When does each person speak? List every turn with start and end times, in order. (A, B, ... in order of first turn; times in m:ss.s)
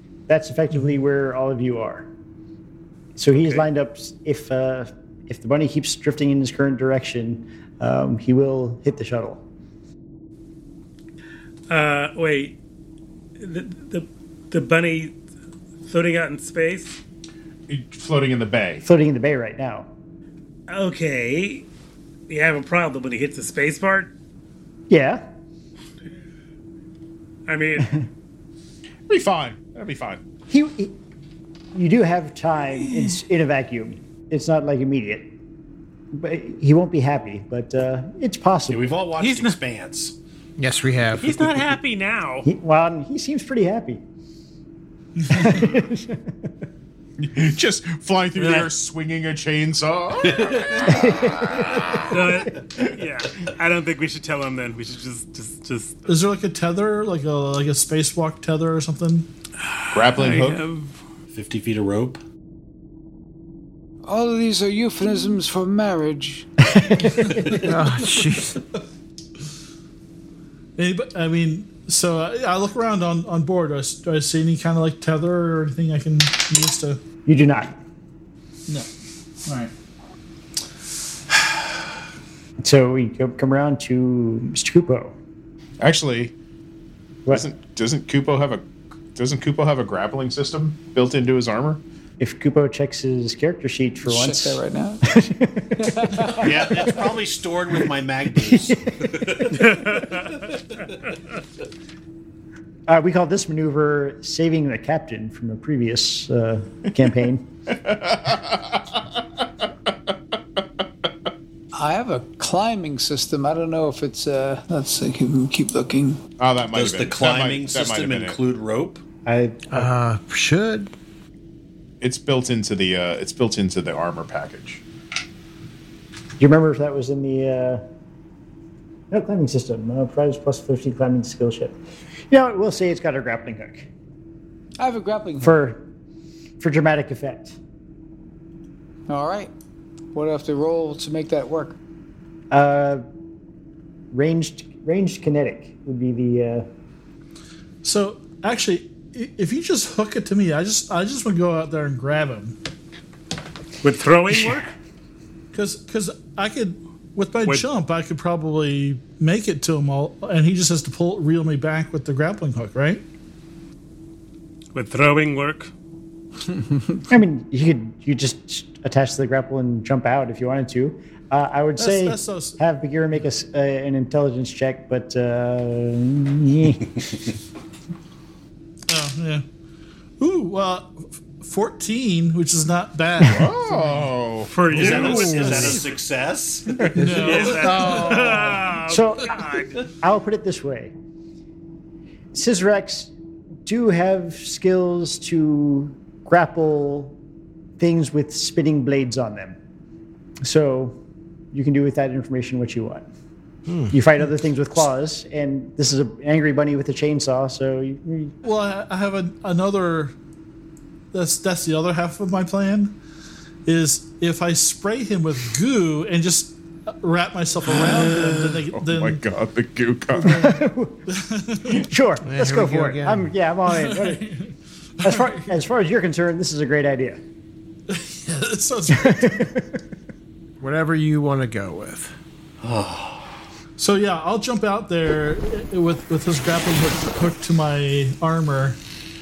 0:00.3-0:02.1 A
0:03.2-0:09.4 A
0:03.3-0:03.6 B
0:11.7-0:12.6 B
0:13.4-0:15.1 B
0:15.8-0:17.0 B
0:17.7-0:18.8 C
0:18.8-0:19.9 A
0:20.7-0:21.7 B
0:22.3-0:24.1 B
0:24.9-0:25.2 A
0:27.5-0:28.0 B
0:29.1-0:30.2 C
0:30.5-0:30.9 A
0:31.7-0:35.3 A
0:36.1-0:38.9 A
0:38.7-0:40.2 D
0:39.2-0:39.6 B
0:40.6-0:41.7 E
0:41.2-0:42.5 B
0:42.4-0:44.0 A
0:45.2-0:46.3 A
0:47.2-0:52.4 C
0:48.4-0:48.7 B
0:50.2-0:50.8 D
0:50.8-0:52.5 A
0:52.1-0:56.1 B
0:56.1-0:59.3 F
0:59.7-1:00.9 B
0:59.9-1:00.6 C
1:01.3-1:02.2 D
1:04.0-1:06.5 G
1:06.7-1:07.8 A
1:07.6-1:08.6 E
1:10.8-1:17.0 F
1:17.2-1:17.7 A
1:19.4-1:19.7 F
1:22.6-1:25.1 A
1:25.8-1:26.3 C
1:27.3-1:31.8 C
1:32.2-1:36.7 A
1:34.0-1:35.0 G
1:35.8-1:37.0 G
1:36.4-1:39.9 D
1:38.4-1:39.8 A
1:39.5-1:40.4 B
1:42.9-1:47.5 A
1:47.8-1:49.0 C
1:51.7-1:56.2 G
1:56.4-1:58.4 C
1:56.7-1:59.5 D
1:59.3-1:59.5 A
1:59.7-2:00.9 E
2:02.0-2:04.8 C
2:06.4-2:07.8 A
2:09.1-2:11.8 A
2:12.3-2:13.9 A
2:14.8-2:15.6 G
2:15.4-2:15.8 A
2:16.6-2:17.6 A
2:19.1-2:19.5 G
2:20.1-2:21.8 G
2:22.5-2:23.0 A
2:24.1-2:26.6 A
2:27.8-2:32.6 F
2:33.8-2:34.7 B
2:35.5-2:43.0 F
2:44.7-2:45.7 B
2:47.1-2:57.3 A
2:51.8-2:52.6 F
2:58.9-2:59.4 F
3:00.2-3:04.1 F
3:03.2-3:05.3 C
3:04.5-3:05.8 B
3:04.7-3:06.9 D
3:04.7-3:05.8 F
3:06.9-3:08.6 F
3:07.0-3:08.6 E
3:07.2-3:09.8 B
3:08.9-3:10.9 A
3:12.3-3:13.1 A
3:13.6-3:17.2 A
3:17.8-3:19.6 A
3:20.4-3:21.0 A
3:21.5-3:23.1 A
3:23.7-3:23.9 E
3:23.9-3:28.3 A
3:28.4-3:30.1 F
3:31.1-3:33.0 F
3:33.6-3:39.2 F
3:38.0-3:40.4 C
3:40.1-3:41.8 F
3:40.2-3:41.0 A
3:41.7-3:44.3 A
3:42.2-3:43.3 E
3:43.7-3:45.5 F
3:45.0-3:47.2 A
3:47.9-3:49.5 F
3:48.9-3:49.8 A
3:50.6-3:52.1 E
3:52.6-3:53.3 D
3:53.8-3:58.8 F